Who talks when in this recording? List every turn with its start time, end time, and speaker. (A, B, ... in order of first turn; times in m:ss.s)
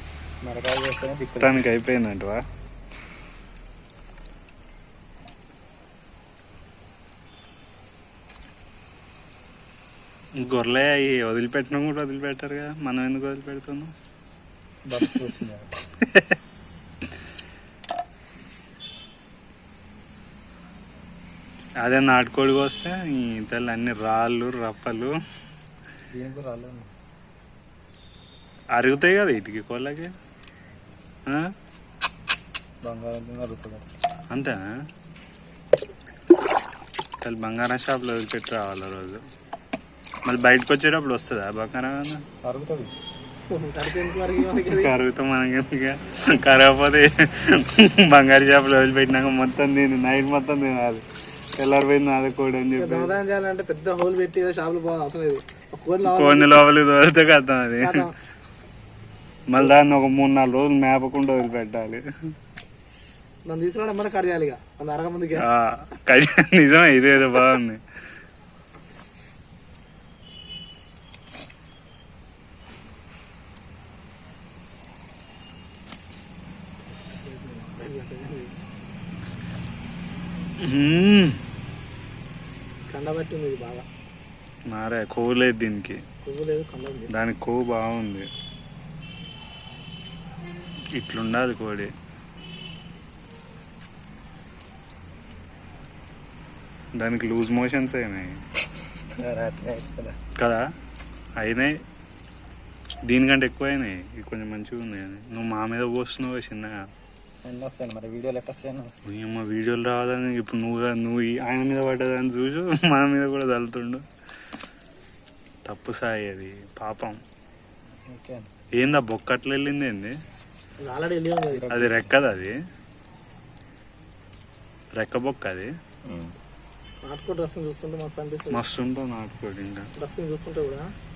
0:00.4-0:01.7 A
0:01.4-0:02.4 B
0:10.4-0:13.9 B
0:14.9-0:15.7 A
0:16.0-0:16.4 B
0:21.8-0:25.1 B
0:26.1-0:26.9 A
0:28.8-0:30.1 B
0:32.8-0:33.9 A
0:34.3-0:34.6 B
0:37.2-0:39.2 B
0:40.3-0:42.2 B
0:42.4-0:42.9 A
0:43.5-0:44.9 C
0:44.7-0:51.0 B
0:51.6-0:53.1 B
0:52.8-0:56.7 C
0:56.0-0:58.1 B
0:57.8-0:58.1 C
0:59.5-1:02.0 B
1:03.5-1:05.4 C
1:05.4-1:07.8 B
1:17.2-1:18.5 C
1:20.6-1:21.4 B
1:22.9-1:23.9 C
1:24.7-1:26.0 B
1:26.2-1:27.1 C
1:27.1-1:28.3 B
1:31.0-1:31.9 B
1:37.0-1:38.4 B
1:39.2-1:40.2 A
1:41.4-1:41.8 B
1:43.1-1:46.8 B
1:47.4-1:48.9 A
1:49.1-1:54.0 B
1:55.7-1:57.2 B
1:58.1-1:58.5 A
1:58.8-2:00.1 B
2:00.8-2:01.7 C
2:01.5-2:02.1 A
2:01.7-2:02.5 B
2:05.0-2:05.7 B
2:06.1-2:06.3 A
2:07.0-2:08.6 C
2:08.5-2:09.9 B
2:10.0-2:10.8 C